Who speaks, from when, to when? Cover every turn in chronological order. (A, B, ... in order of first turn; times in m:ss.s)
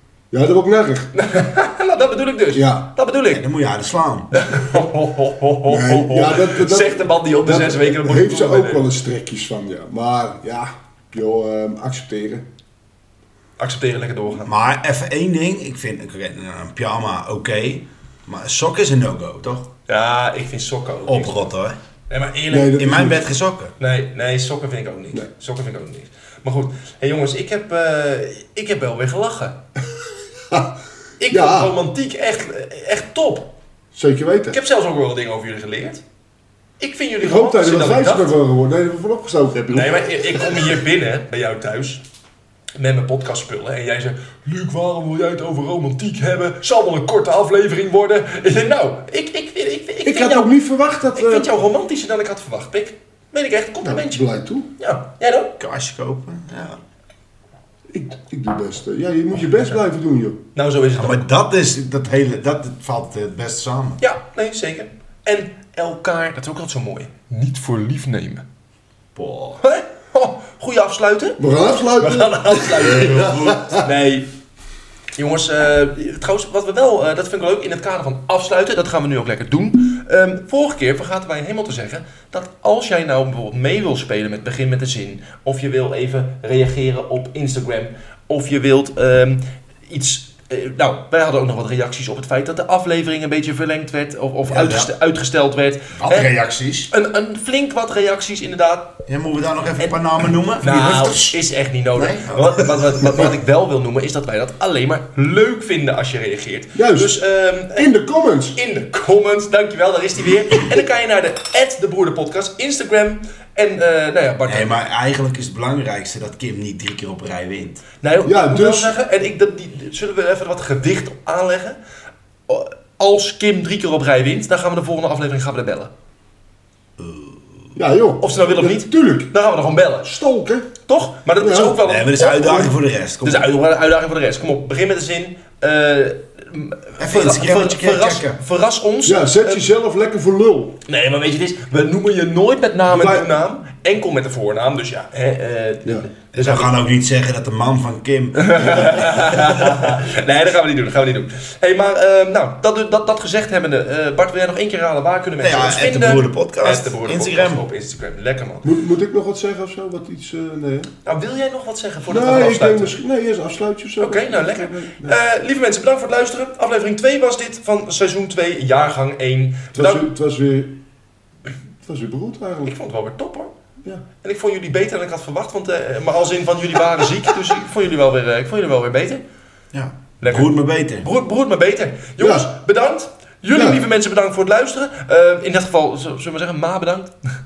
0:00.3-0:01.1 A
0:01.2-0:03.4 B
0:02.5-0:02.9 A
0:03.3-0:04.3 C
0:04.3-0:08.9 B
0:05.7-0:12.5 A
0:13.6-0:14.5 B
0:14.4-0:19.7 C
0:19.9-0:21.4 B
0:21.1-0:21.8 C
0:22.1-0:22.9 B
0:22.5-0:23.2 A
0:22.8-0:23.7 C
0:23.8-0:29.6 B
0:31.2-0:33.5 B
0:31.3-0:31.8 A
0:34.0-0:34.6 A
0:34.5-0:36.0 B
0:36.8-0:38.3 B
0:37.2-0:40.6 A
0:39.7-0:42.0 B
0:42.8-0:50.5 B
0:50.0-0:51.5 A
0:51.1-0:54.2 B
0:53.8-0:54.7 A
0:54.8-0:55.5 B
0:55.6-0:56.8 C
0:57.9-1:00.4 A
1:00.6-1:01.2 B
1:01.0-1:04.0 C
1:04.0-1:08.4 B
1:09.2-1:09.6 C
1:09.6-1:11.4 B
1:11.4-1:13.9 A
1:12.0-1:14.3 B
1:12.9-1:13.8 C
1:15.2-1:36.3 B
1:34.5-1:34.9 C
1:35.9-1:36.9 C
1:36.9-1:39.0 B
1:39.1-1:41.4 C
1:40.6-1:48.0 B
1:42.0-1:42.6 C
1:46.8-1:48.6 A
1:48.6-1:54.8 B
1:54.5-1:57.8 C
1:58.0-2:01.8 B
1:58.2-1:58.9 A
2:02.5-2:05.9 B
2:07.0-2:07.4 C
2:07.8-2:09.3 A
2:08.2-2:10.1 B
2:10.0-2:10.7 A
2:10.8-2:19.6 B
2:11.4-2:11.8 A
2:11.8-2:13.5 C
2:17.0-2:18.4 C
2:19.0-2:20.8 A
2:20.9-2:26.7 B
2:22.9-2:23.3 A
2:26.4-2:29.6 C
2:28.4-2:38.7 B
2:35.4-2:37.6 C
2:38.6-2:40.9 A
2:41.1-2:43.0 B
2:42.1-2:45.2 A
2:44.0-2:50.1 B
2:49.7-2:50.8 A
2:51.8-2:52.7 A
2:52.7-2:53.5 B
2:54.2-2:59.2 B
2:59.7-3:01.1 C
3:00.2-3:07.1 B
3:02.2-3:02.5 A
3:03.5-3:03.8 A